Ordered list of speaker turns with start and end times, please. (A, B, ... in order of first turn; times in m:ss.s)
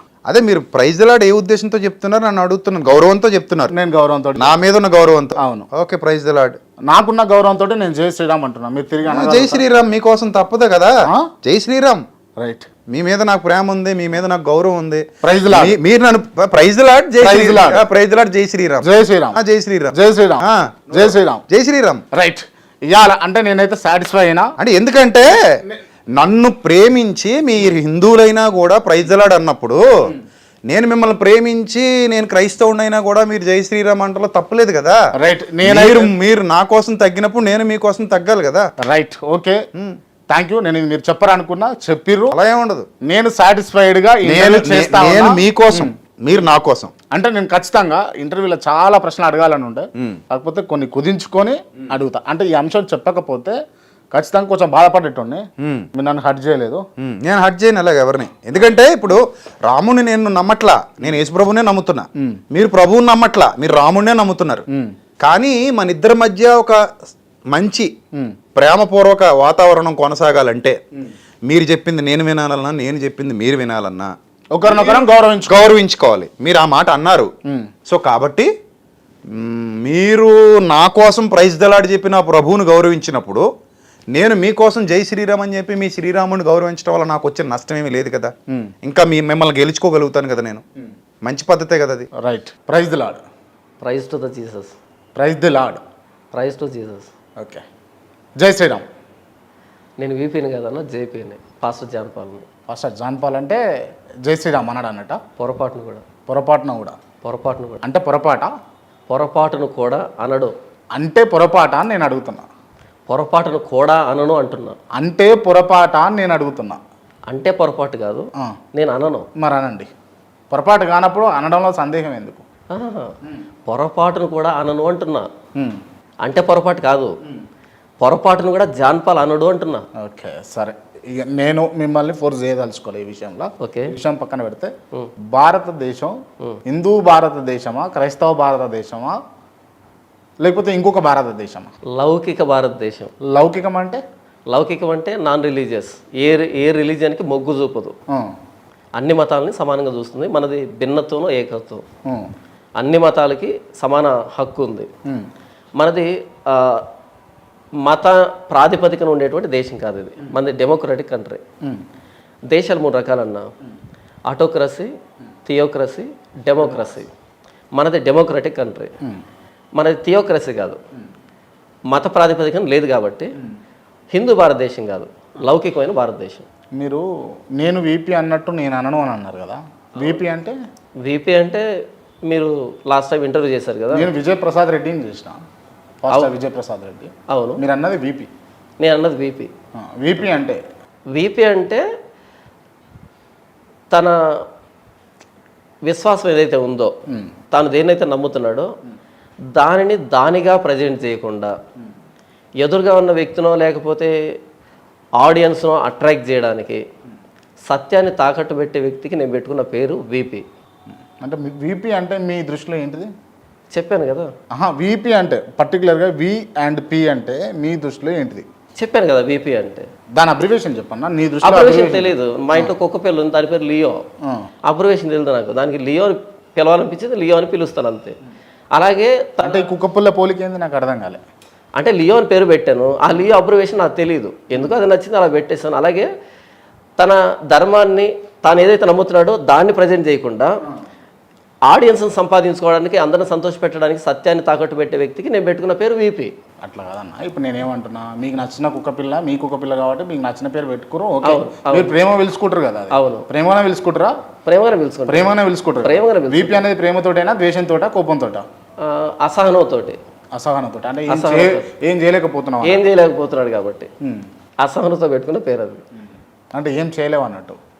0:00.3-0:03.7 A
0:03.7-0:04.6 B
0:04.4-0:06.6 A
0:05.4-0:05.6 B
0:06.9-0:09.6 B
0:09.1-0:10.9 A
0:11.0-0:11.3 B
0:11.4-0:12.0 A
0:12.4-0:12.7 B
0:12.9-0:22.0 A
0:15.2-0:15.8 B
0:17.2-0:17.8 B
0:18.8-0:19.4 B
0:19.9-0:21.4 B
0:22.1-0:24.5 B
0:24.6-0:25.4 A
0:26.2-0:30.1 A
0:30.7-0:35.0 A
0:35.2-0:36.1 B
0:35.6-0:38.6 A
0:38.8-0:39.6 B
0:40.3-0:42.4 B
0:42.3-0:42.9 A
0:43.0-0:45.9 B
0:44.2-0:46.9 A
0:47.1-0:53.5 B
0:54.1-0:56.8 B
0:55.6-0:55.9 A
0:57.0-1:04.6 A
1:05.2-1:06.8 A
1:07.5-1:07.9 A
1:08.5-1:10.8 A
1:11.5-1:14.1 A
1:14.5-1:15.6 B
1:14.7-1:17.3 A
1:17.8-1:18.5 A
1:19.3-1:23.4 A
1:24.1-1:30.6 A
1:31.2-1:32.1 A
1:32.2-1:33.2 B
1:33.8-1:34.7 C
1:35.2-1:35.8 B
1:36.3-1:37.1 C
1:38.4-1:38.8 B
1:40.0-1:42.4 C
1:42.7-1:43.6 B
1:44.2-1:45.2 B
1:45.4-1:46.0 C
1:46.3-1:47.0 B
1:47.2-1:47.8 C
1:47.8-1:48.5 B
1:49.1-1:50.5 C
1:50.9-1:52.4 B
1:53.1-1:54.8 C
1:55.0-1:56.8 B
1:57.3-1:59.2 C
1:59.4-1:59.9 B
2:00.5-2:02.4 B
2:02.7-2:03.1 C
2:03.6-2:05.3 C
2:06.2-2:07.2 C
2:08.0-2:09.8 C
2:10.0-2:14.7 B
2:13.6-2:13.9 C
2:15.3-2:19.1 B
2:20.4-2:21.7 B
2:21.9-2:23.1 C
2:23.3-2:24.0 B
2:24.5-2:27.9 C
2:29.0-2:31.8 C
2:32.8-2:34.9 C
2:35.8-2:36.8 C
2:37.8-2:41.4 C
2:42.5-2:43.5 C
2:44.3-2:44.9 C
2:45.4-2:47.1 C
2:47.7-2:48.9 C
2:49.8-2:50.8 C
2:51.9-2:53.3 C
2:54.1-2:56.4 C
2:56.8-2:57.0 B
2:57.6-3:00.6 B
3:01.0-3:01.6 C
3:02.3-3:04.1 C
3:03.9-3:05.4 B
3:06.0-3:08.3 B
3:07.3-3:07.6 C
3:08.8-3:09.5 C
3:09.8-3:10.6 B
3:11.1-3:11.8 C
3:13.9-3:14.4 C
3:15.8-3:16.9 C
3:17.5-3:18.7 C
3:19.5-3:21.5 C
3:22.6-3:24.2 C
3:25.2-3:26.8 C
3:27.7-3:30.4 C
3:31.2-3:33.1 B
3:33.7-3:34.3 C
3:34.5-3:38.4 B
3:38.8-3:39.9 C
3:40.1-3:42.7 B
3:41.4-3:44.0 C
3:44.7-3:48.2 C
3:48.7-3:49.6 C
3:49.4-3:51.2 B
3:51.8-3:56.1 C
3:57.0-4:00.5 C
4:01.7-4:06.3 C
4:06.6-4:14.1 B
4:11.2-4:11.9 C
4:12.9-4:13.2 C
4:14.4-4:16.6 C
4:15.1-4:18.4 B
4:18.8-4:20.0 C
4:20.3-4:22.8 B
4:21.1-4:21.6 C
4:22.6-4:23.9 C
4:24.6-4:25.8 C
4:26.5-4:27.6 B